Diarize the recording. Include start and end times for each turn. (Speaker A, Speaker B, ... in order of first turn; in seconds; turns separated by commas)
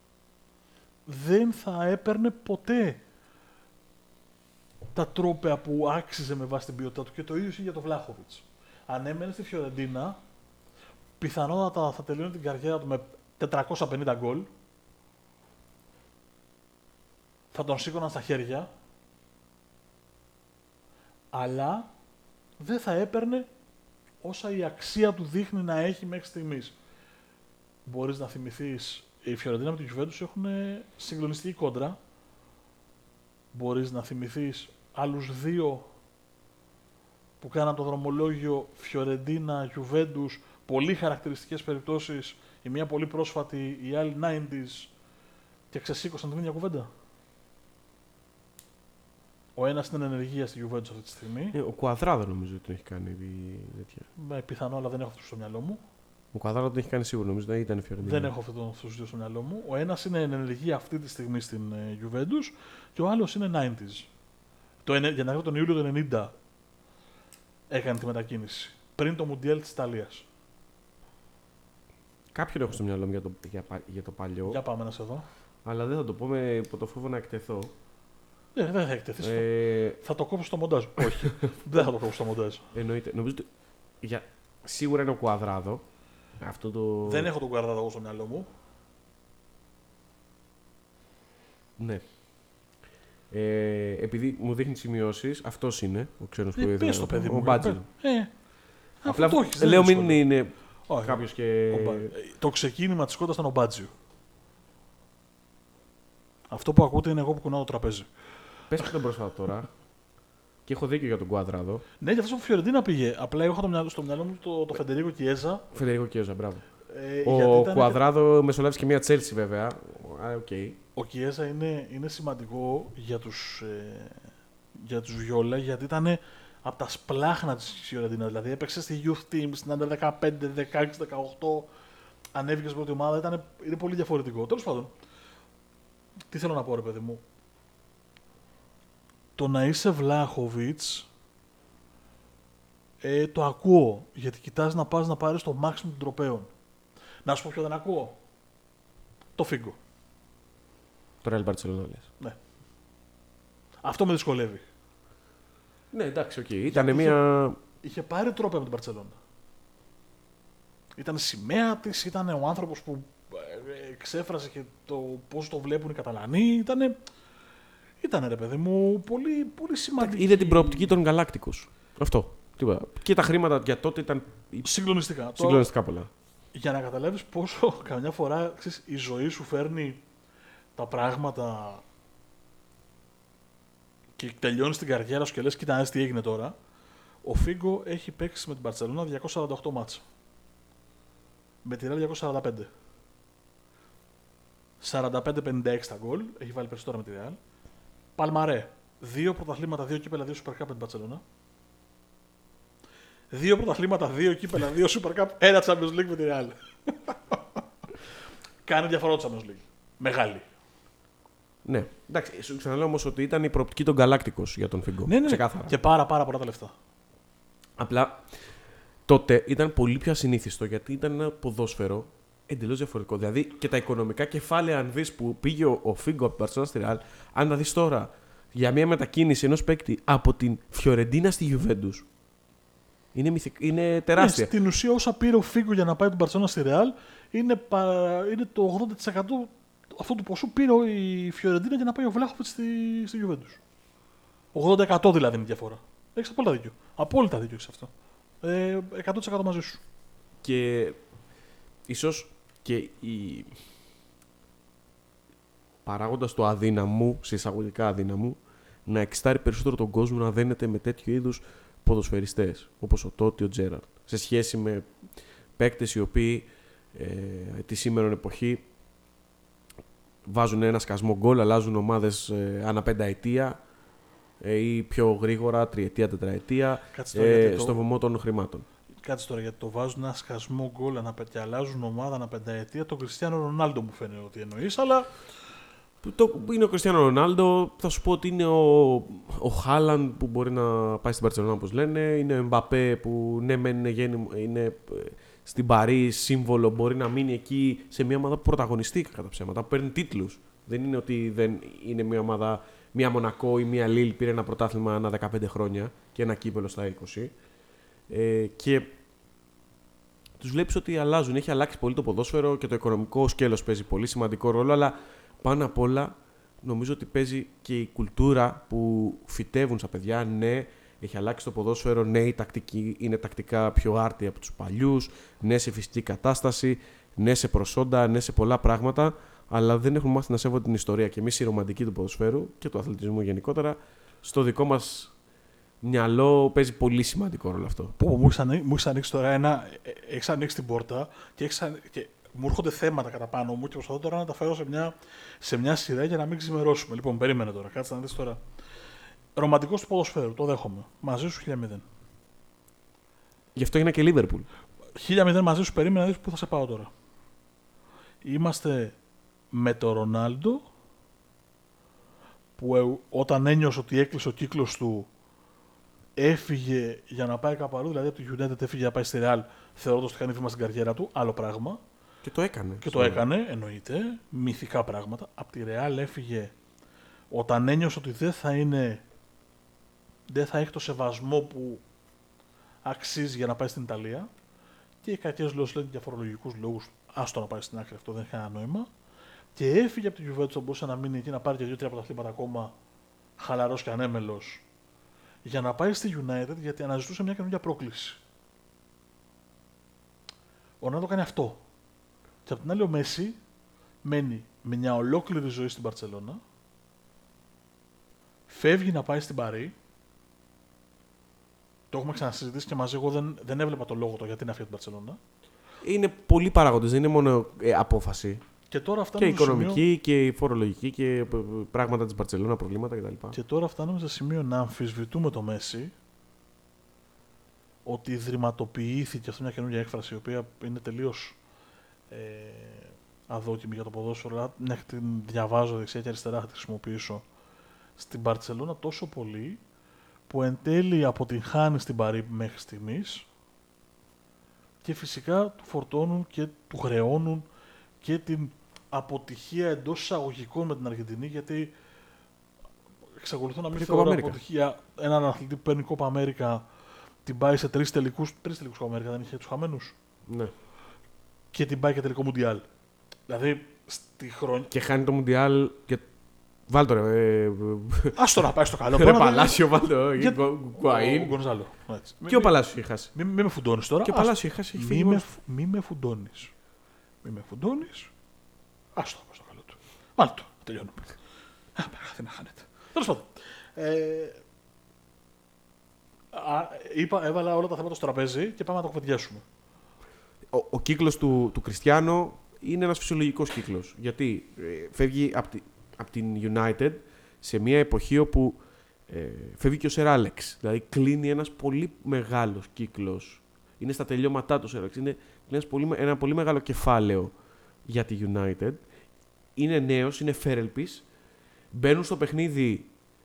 Speaker A: 1.1-3.0, Speaker A: 4.9-10.2, Speaker A: 11.2-14.5, Speaker A: 17.5-18.7, Speaker A: 21.3-21.9, Speaker A: 22.6-23.5, Speaker A: 24.2-26.7, Speaker A: 27.9-32.0, Speaker A: 33.5-35.9, Speaker A: 37.4-44.9, Speaker A: 45.7-46.9, Speaker A: 49.5-51.6, Speaker B: 51.5-54.1, Speaker A: 54.1-55.8, Speaker B: 56.3-58.3, Speaker A: 58.0-64.1, Speaker A: 64.8-66.3, Speaker A: 67.7-70.2, Speaker B: 72.3-74.6, Speaker A: 74.5-75.2, Speaker B: 75.6-77.7, Speaker A: 78.5-82.7, Speaker B: 79.2-80.0, Speaker B: 82.7-83.5, Speaker B: 84.0-85.8, Speaker B: 86.4-87.3, Speaker A: 87.0-88.5, Speaker B: 91.8-92.0, Speaker B: 93.3-97.8, Speaker A: 96.5-98.3, Speaker A: 99.0-100.2, Speaker B: 99.0-102.1, Speaker A: 100.9-103.9, Speaker A: 106.5-108.1, Speaker B: 108.7-109.7, Speaker B: 110.7-111.8, Speaker A: 112.0-115.6, Speaker B: 115.7-116.7, Speaker A: 116.9-118.0, Speaker B: 117.2-120.8, Speaker A: 121.0-131.7, Speaker A: 132.3-134.9, Speaker A: 136.3-137.2, Speaker A: 139.4-141.1, Speaker A: 143.0-146.5, Speaker A: 147.2-148.2, Speaker A: 149.4-149.8, Speaker B: 151.2-152.1, Speaker A: 153.8-154.6, Speaker B: 155.9-157.6, Speaker A: 156.7-157.2, Speaker A: 157.8-159.2, Speaker A: 161.0-166.9, Speaker A: 168.0-170.9, Speaker B: 170.0-174.7, Speaker A: 174.6-175.7, Speaker B: 175.3-176.1, Speaker A: 176.5-180.0, Speaker A: 180.8-181.8, Speaker A: 184.2-186.5, Speaker A: 187.2-190.0, Speaker A: 191.6-192.7, Speaker A: 194.8-197.4, Speaker A: 198.2-201.2, Speaker A: 203.3-207.6, Speaker A: 208.6-210.4, Speaker B: 211.6-215.7, Speaker A: 215.0-216.7, Speaker B: 217.8-218.3, Speaker B: 219.1-232.1, Speaker B: 233.1-234.5, Speaker A: 234.1-243.6, Speaker A: 244.5-247.9, Speaker A: 248.4-249.8, Speaker B: 250.4-251.0, Speaker B: 251.9-253.6, Speaker B: 255.8-264.9, Speaker B: 265.6-268.6, Speaker B: 270.2-273.6, Speaker B: 274.4-278.6, Speaker A: 276.9-277.8, Speaker A: 279.0-285.1, Speaker B: 286.0-307.3, Speaker B: 308.1-308.9, Speaker B: 310.4-335.1, Speaker B: 335.8-337.9, Speaker A: 338.0-348.4, Speaker A: 349.4-351.8, Speaker B: 353.5-354.5, Speaker A: 355.0-356.9, Speaker A: 358.2-358.9, Speaker A: 359.5-360.6, Speaker A: 362.6-365.1, Speaker A: 366.2-371.8, Speaker B: 372.2-373.2, Speaker A: 372.8-376.5, Speaker A: 377.3-379.0, Speaker A: 380.3-381.8, Speaker A: 382.8-384.3, Speaker A: 385.0-388.9, Speaker A: 389.5-392.7, Speaker A: 393.4-394.6, Speaker A: 395.4-398.2, Speaker A: 400.8-401.6, Speaker A: 402.4-403.4, Speaker A: 404.0-406.4, Speaker A: 408.5-409.7, Speaker A: 411.9-415.2, Speaker B: 415.8-418.4, Speaker A: 418.7-419.8, Speaker B: 419.2-423.4, Speaker A: 423.3-425.9, Speaker A: 427.8-431.4, Speaker A: 432.1-437.2, Speaker A: 438.0-439.6, Speaker A: 440.3-443.2, Speaker A: 444.8-447.4, Speaker A: 448.0-451.7, Speaker A: 453.2-456.6, Speaker B: 453.7-454.4, Speaker A: 457.2-459.9, Speaker B: 460.3-460.5, Speaker A: 461.5-462.6, Speaker A: 463.3-464.7, Speaker B: 464.7-466.1, Speaker B: 466.7-468.2, Speaker A: 468.1-472.5, Speaker B: 468.9-471.3, Speaker B: 472.2-473.1, Speaker A: 473.1-476.5, Speaker B: 474.0-475.2, Speaker A: 477.2-478.1, Speaker A: 478.9-481.2, Speaker A: 481.8-484.4, Speaker A: 486.3-489.4, Speaker B: 490.5-507.3, Speaker B: 507.9-508.8, Speaker B: 509.5-511.1, Speaker B: 511.7-512.9